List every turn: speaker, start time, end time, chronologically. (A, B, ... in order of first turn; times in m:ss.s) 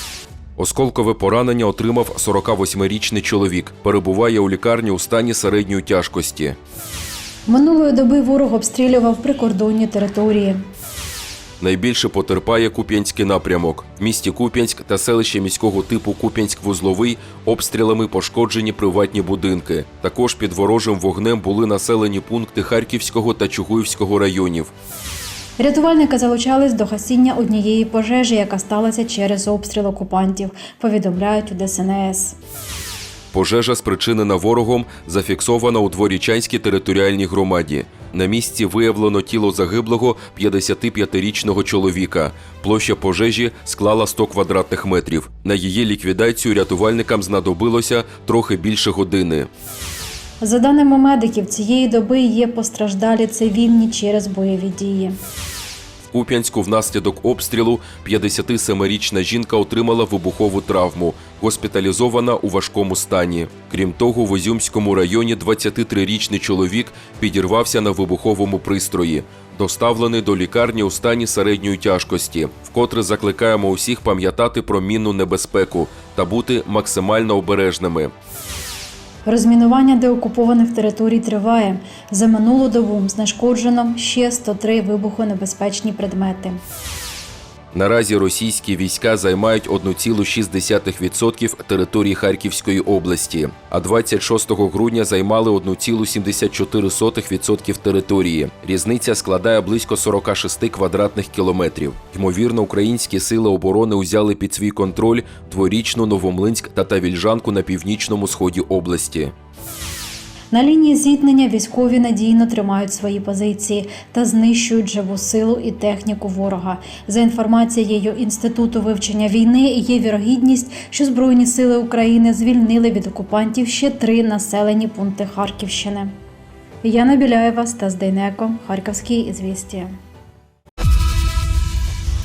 0:00.6-0:06.6 A
0:07.5-0:10.6 B
0:11.6-0:24.7 A
0:25.6-0:32.4 B
0:33.3-0:49.5 A
0:50.4-0:55.2 B
0:56.1-1:18.1 A
1:19.3-1:26.6 B
1:27.7-1:49.3 A
1:50.5-2:06.1 B
2:06.8-2:10.0 B